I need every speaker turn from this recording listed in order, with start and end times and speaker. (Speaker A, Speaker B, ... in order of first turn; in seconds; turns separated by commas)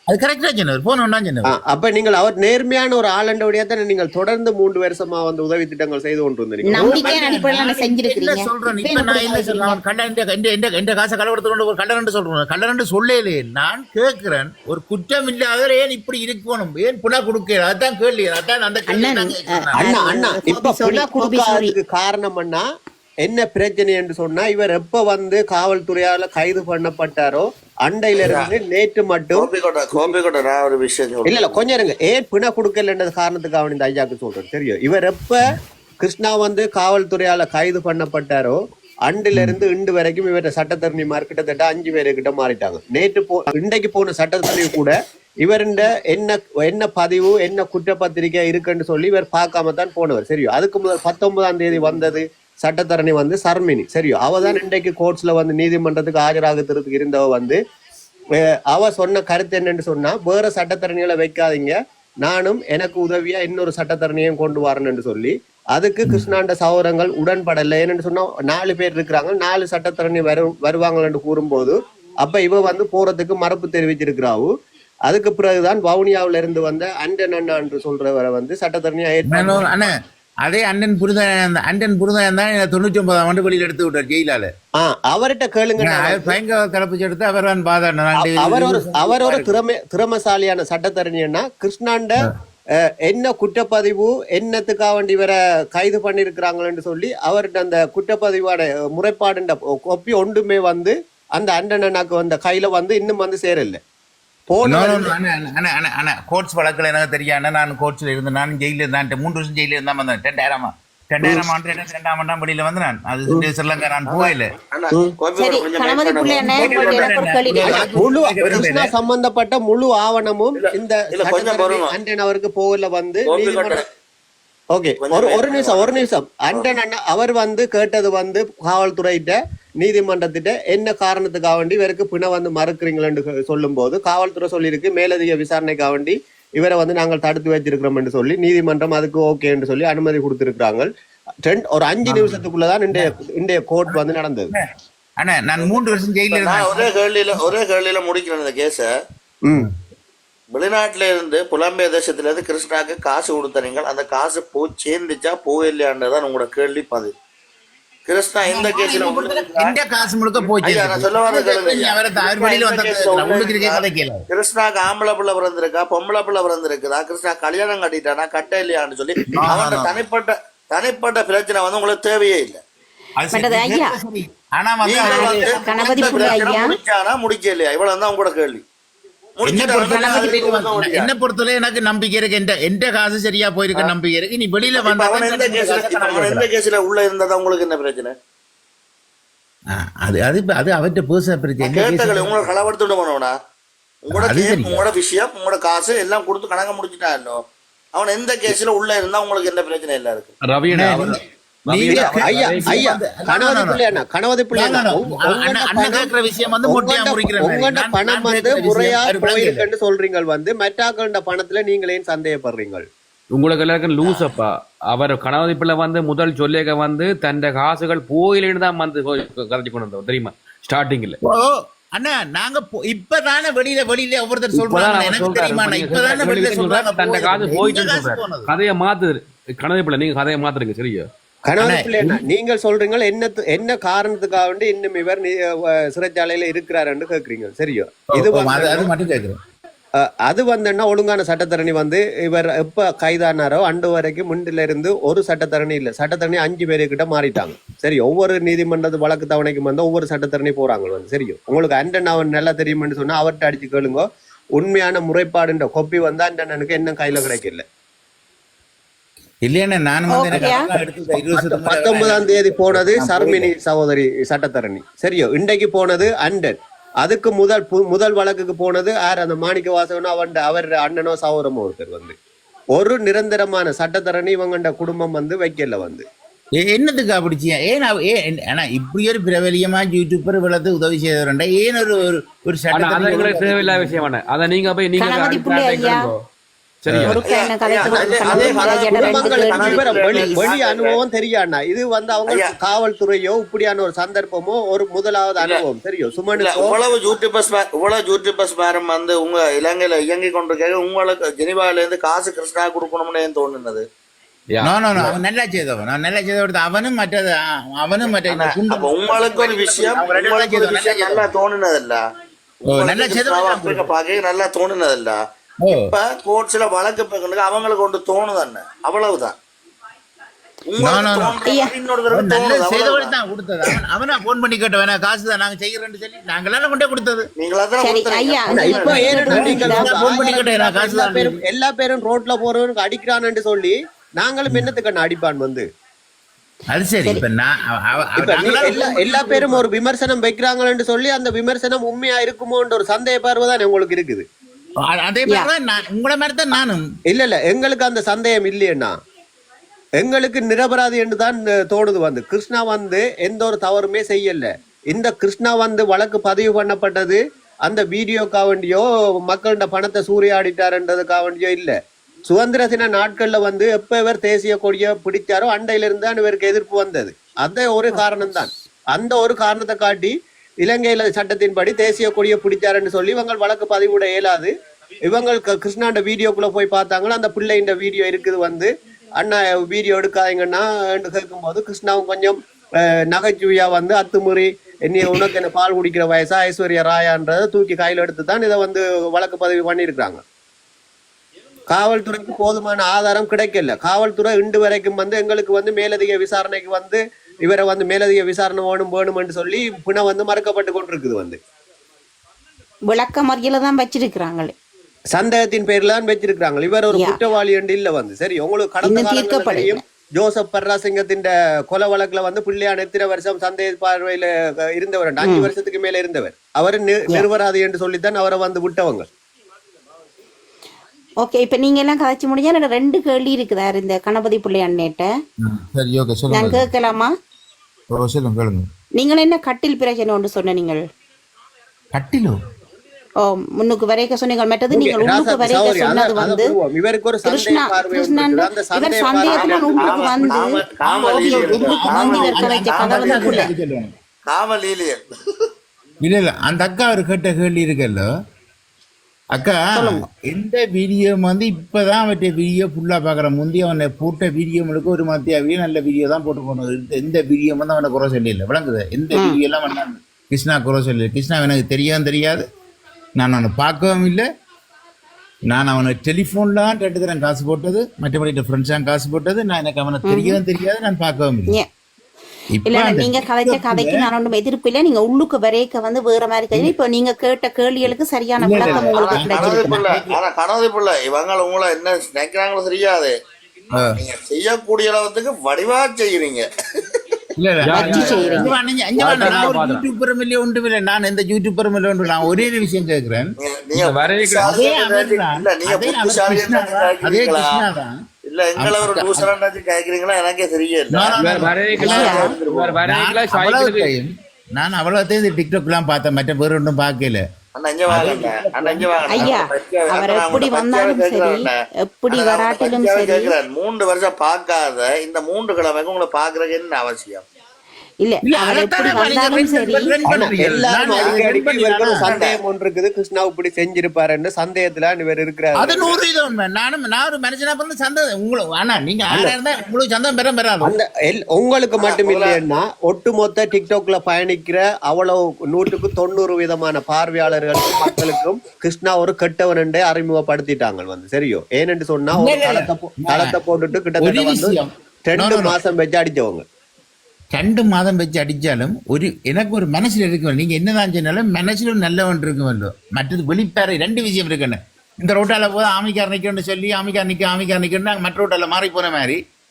Speaker A: 0.1-1.5, Speaker B: 1.5-7.1, Speaker C: 6.7-9.8, Speaker A: 6.8-20.0, Speaker C: 18.9-21.7, Speaker B: 19.8-22.6, Speaker B: 23.2-30.1, Speaker D: 28.2-28.5, Speaker D: 29.4-31.6, Speaker B: 31.2-57.6, Speaker B: 58.7-74.5, Speaker B: 75.1-79.7, Speaker A: 79.3-79.9, Speaker A: 80.4-84.5, Speaker B: 84.8-86.4, Speaker A: 85.8-89.5, Speaker B: 88.2-92.2, Speaker B: 93.1-103.8, Speaker B: 104.5-105.1, Speaker A: 104.6-114.5, Speaker D: 114.1-117.9, Speaker C: 115.4-117.8, Speaker A: 116.3-118.9, Speaker B: 117.9-123.8, Speaker D: 120.6-121.9, Speaker D: 123.3-123.8, Speaker B: 124.7-140.9, Speaker D: 125.0-126.7, Speaker B: 141.5-144.5, Speaker A: 142.1-142.4, Speaker A: 145.2-146.9, Speaker D: 146.3-148.9, Speaker D: 150.5-157.1, Speaker D: 158.1-159.8, Speaker A: 158.5-164.2, Speaker D: 160.6-172.6, Speaker A: 169.3-169.9, Speaker A: 173.2-176.3, Speaker C: 173.3-174.0, Speaker D: 174.8-178.6, Speaker C: 175.0-176.8, Speaker D: 179.4-181.1, Speaker A: 179.5-186.5, Speaker D: 184.8-188.1, Speaker A: 189.7-192.3, Speaker D: 191.6-193.3, Speaker D: 194.1-197.4, Speaker A: 194.1-194.9, Speaker D: 197.9-200.3, Speaker E: 200.4-202.9, Speaker A: 200.7-203.8, Speaker B: 202.0-206.1, Speaker A: 204.5-209.7, Speaker B: 206.6-212.9, Speaker E: 213.3-221.2, Speaker D: 214.0-214.3, Speaker A: 221.2-228.5, Speaker E: 224.5-231.1, Speaker B: 231.5-238.9, Speaker A: 231.6-232.2, Speaker A: 238.1-239.4, Speaker B: 240.0-257.6, Speaker A: 259.4-263.5, Speaker C: 260.1-260.7, Speaker B: 261.3-272.1, Speaker B: 272.8-276.1, Speaker A: 276.6-284.0, Speaker E: 282.7-286.2, Speaker C: 285.0-286.1, Speaker E: 286.8-287.2, Speaker A: 286.9-287.1, Speaker C: 287.1-290.0, Speaker D: 287.2-291.0, Speaker B: 287.9-296.8, Speaker D: 292.3-292.5, Speaker D: 296.4-303.9, Speaker E: 304.5-305.1, Speaker A: 304.6-311.3, Speaker D: 308.1-312.0, Speaker D: 312.6-315.2, Speaker A: 312.7-313.9, Speaker A: 315.6-315.9, Speaker D: 315.7-319.4, Speaker D: 320.7-323.1, Speaker A: 320.8-321.4, Speaker C: 321.4-321.7, Speaker A: 322.1-327.3, Speaker D: 327.4-329.3, Speaker C: 327.8-329.9, Speaker B: 328.5-335.6, Speaker A: 329.3-331.4, Speaker A: 336.7-339.4, Speaker B: 338.2-344.3, Speaker C: 338.9-339.4, Speaker A: 344.8-346.8, Speaker B: 347.1-348.9, Speaker B: 350.0-361.8, Speaker B: 362.3-374.5, Speaker B: 375.1-390.2, Speaker B: 391.7-401.4, Speaker C: 402.9-404.5, Speaker B: 405.1-419.1, Speaker C: 408.8-409.8, Speaker C: 415.2-415.5, Speaker C: 421.2-425.1, Speaker A: 425.4-426.7, Speaker C: 426.3-427.1, Speaker A: 427.9-428.7, Speaker C: 429.0-430.8, Speaker A: 431.9-432.4, Speaker C: 433.2-436.5, Speaker B: 434.7-440.3, Speaker C: 437.3-443.5, Speaker D: 439.3-443.5, Speaker A: 440.9-443.9, Speaker D: 444.3-445.1, Speaker A: 446.0-448.1, Speaker A: 449.4-462.4, Speaker C: 449.7-450.0, Speaker A: 463.2-464.3, Speaker A: 465.5-471.6, Speaker C: 470.1-470.4, Speaker A: 472.6-474.1, Speaker C: 472.7-479.8, Speaker A: 478.4-480.1, Speaker D: 478.7-483.1, Speaker A: 483.7-484.0, Speaker D: 483.9-486.4, Speaker A: 487.4-493.3, Speaker E: 487.6-489.8, Speaker C: 487.7-488.5, Speaker D: 493.4-497.6, Speaker E: 493.8-494.5, Speaker A: 494.4-498.0, Speaker D: 498.3-501.1, Speaker A: 498.6-499.3, Speaker A: 500.9-502.3, Speaker E: 501.1-503.9, Speaker D: 501.8-502.8, Speaker C: 501.8-502.3, Speaker A: 502.9-507.2, Speaker D: 507.6-511.5, Speaker A: 507.9-509.4, Speaker C: 509.1-513.4, Speaker D: 512.1-517.3, Speaker C: 518.0-519.9, Speaker A: 518.3-522.0, Speaker B: 520.0-526.0, Speaker D: 522.0-522.4, Speaker A: 525.6-530.7, Speaker B: 529.1-529.4, Speaker B: 530.6-546.4, Speaker D: 531.8-532.4, Speaker A: 542.1-543.4, Speaker A: 544.0-545.6, Speaker A: 547.3-559.2